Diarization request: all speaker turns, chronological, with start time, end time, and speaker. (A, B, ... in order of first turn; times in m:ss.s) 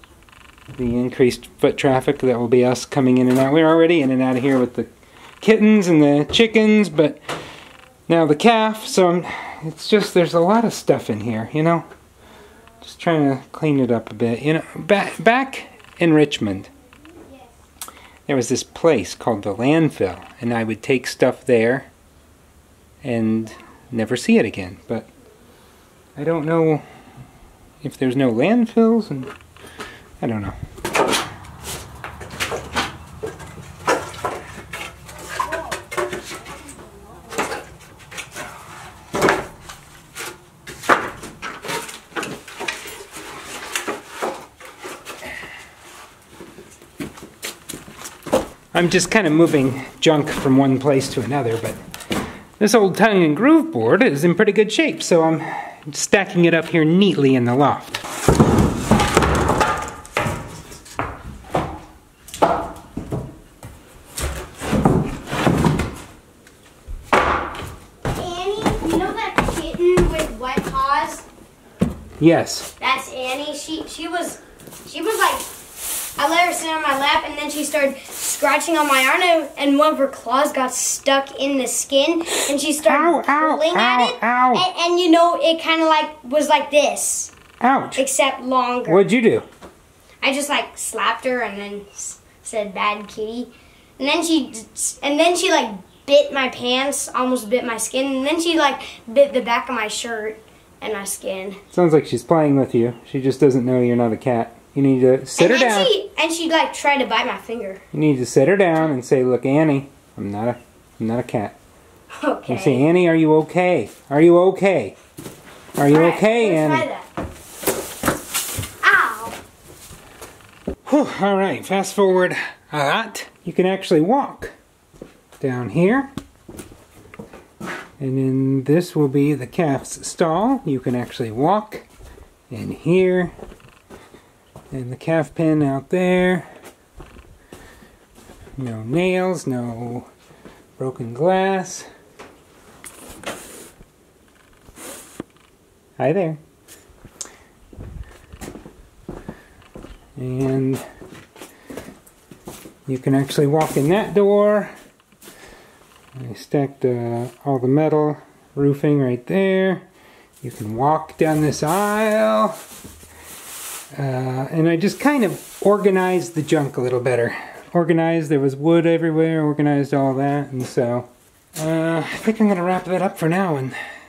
0:00.7-0:04.9 A
0:05.4-0:07.2 A
0:08.1-0:11.8 A
0:12.8-0:16.7 A
0:18.3-0:21.9 A
0:23.0-0:25.1 A
0:26.2-0:26.8 A
0:27.8-0:29.3 A
0:30.2-0:30.6 A
0:48.7-0:51.8 A
0:52.6-0:58.0 A
1:08.1-1:11.2 B
1:12.2-1:12.7 A
1:12.8-1:15.5 B
1:16.2-1:27.3 B
1:22.8-1:24.7 A
1:27.6-1:28.0 A
1:28.0-1:29.0 B
1:28.8-1:29.4 A
1:30.2-1:41.6 B
1:41.7-1:45.9 A
1:45.4-1:47.8 B
1:47.9-1:51.6 A
1:52.1-1:52.8 B
1:52.5-1:54.9 A
1:55.8-1:56.9 A
1:55.8-1:57.0 B
1:58.8-1:59.4 B
2:00.8-2:04.5 A
2:05.4-2:06.1 A
2:08.0-2:11.8 A
2:12.5-2:13.3 A
2:14.7-2:16.4 A
2:18.6-2:20.1 A
2:20.8-2:21.9 A
2:26.0-2:26.4 A
2:30.2-2:30.8 A
2:32.9-2:34.7 A
2:36.2-2:39.8 A
2:40.4-2:42.6 A
2:43.9-2:53.8 A